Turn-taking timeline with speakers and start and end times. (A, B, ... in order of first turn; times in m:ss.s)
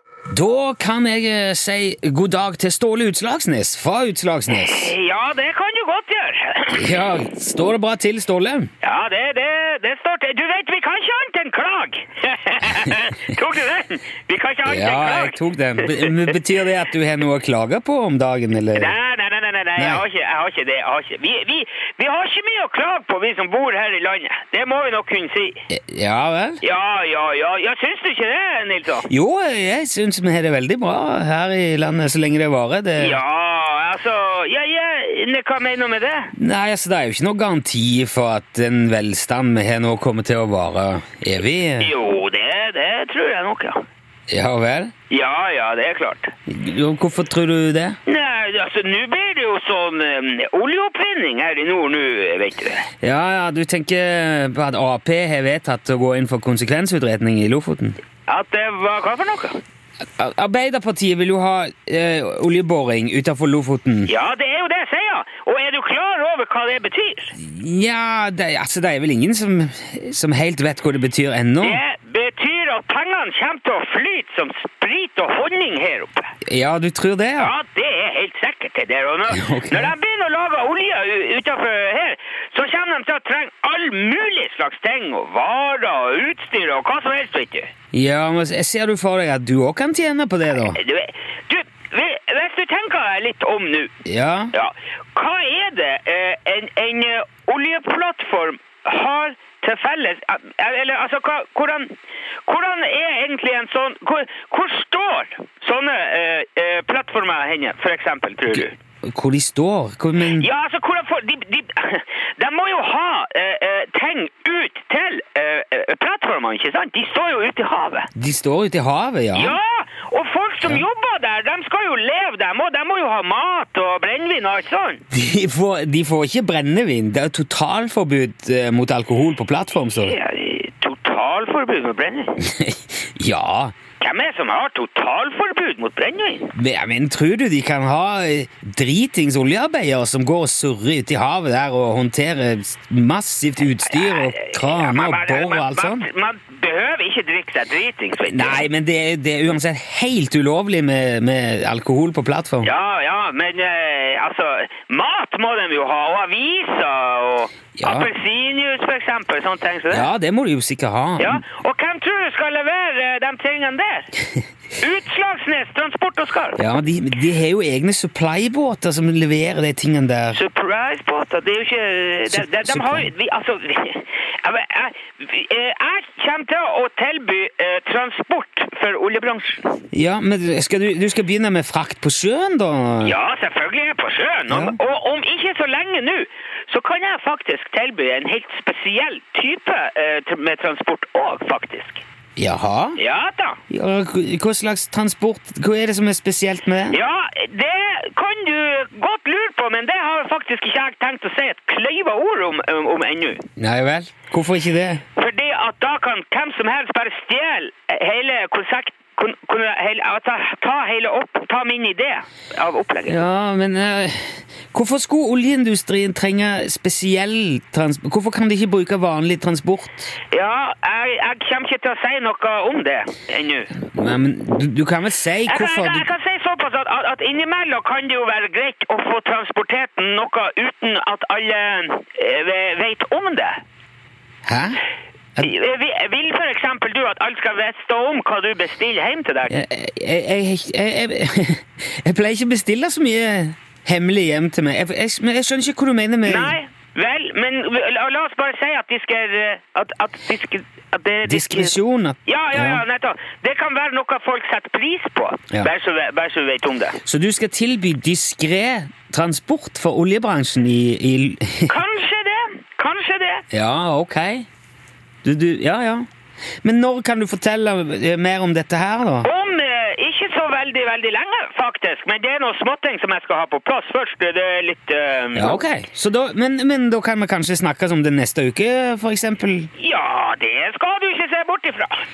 0:00.3-0:04.9 A
0:04.5-0:07.0 B
0:06.7-0:08.7 A
0:08.8-0:16.2 B
0:14.6-0:18.9 A
0:18.8-0:25.6 B
0:19.8-0:20.0 A
0:25.7-0:26.6 A
0:26.6-0:29.1 B
0:29.1-0:33.2 A
0:33.0-0:36.3 B
0:36.3-0:41.9 A
0:41.8-0:43.8 B
0:44.3-0:44.9 A
0:45.1-0:46.3 B
0:46.5-0:48.0 A
0:48.1-0:52.9 B
0:53.0-0:58.0 A
0:58.3-0:59.6 B
1:00.0-1:04.1 A
1:04.1-1:07.4 B
1:07.4-1:11.8 A
1:11.6-1:16.3 B
1:16.4-1:17.5 A
1:17.4-1:27.7 B
1:19.3-1:20.0 A
1:27.9-1:30.8 A
1:30.7-1:33.9 B
1:34.0-1:34.5 A
1:34.5-1:41.9 B
1:42.5-1:48.7 B
1:48.5-1:50.5 A
1:50.4-1:58.1 B
1:58.2-1:59.6 A
1:59.3-2:05.0 B
2:05.1-2:10.2 A
2:10.0-2:12.4 B
2:12.4-2:13.7 A
2:14.0-2:16.5 B
2:16.5-2:26.1 A
2:23.9-2:28.7 B
2:28.3-2:32.7 A
2:32.6-2:40.0 B
2:37.8-2:38.1 A
2:39.9-2:41.4 A
2:41.2-2:44.1 B
2:44.8-2:46.6 B
2:46.6-2:50.4 A
2:50.3-2:59.6 B
2:52.3-2:53.1 A
2:59.9-3:03.2 A
3:03.0-3:12.0 B
3:04.5-3:04.8 A
3:12.4-3:13.0 A
3:13.0-3:13.6 B
3:13.7-3:17.0 A
3:16.9-3:23.4 B
3:23.6-3:25.0 A
3:25.2-3:33.1 B
3:33.1-3:40.2 A
3:40.3-3:43.7 B
3:43.8-3:46.1 A
3:45.5-3:53.6 B
3:54.5-3:54.8 A
3:55.4-3:59.5 B
3:59.5-4:06.6 A
4:06.3-4:11.7 B
4:11.2-4:12.8 A
4:12.3-4:17.0 B
4:17.0-4:21.8 A
4:21.7-4:23.4 B
4:23.5-4:24.5 A
4:25.2-4:26.1 A
4:26.6-4:29.3 A
4:29.2-4:35.6 B
4:35.4-4:39.7 A
4:39.8-4:42.0 B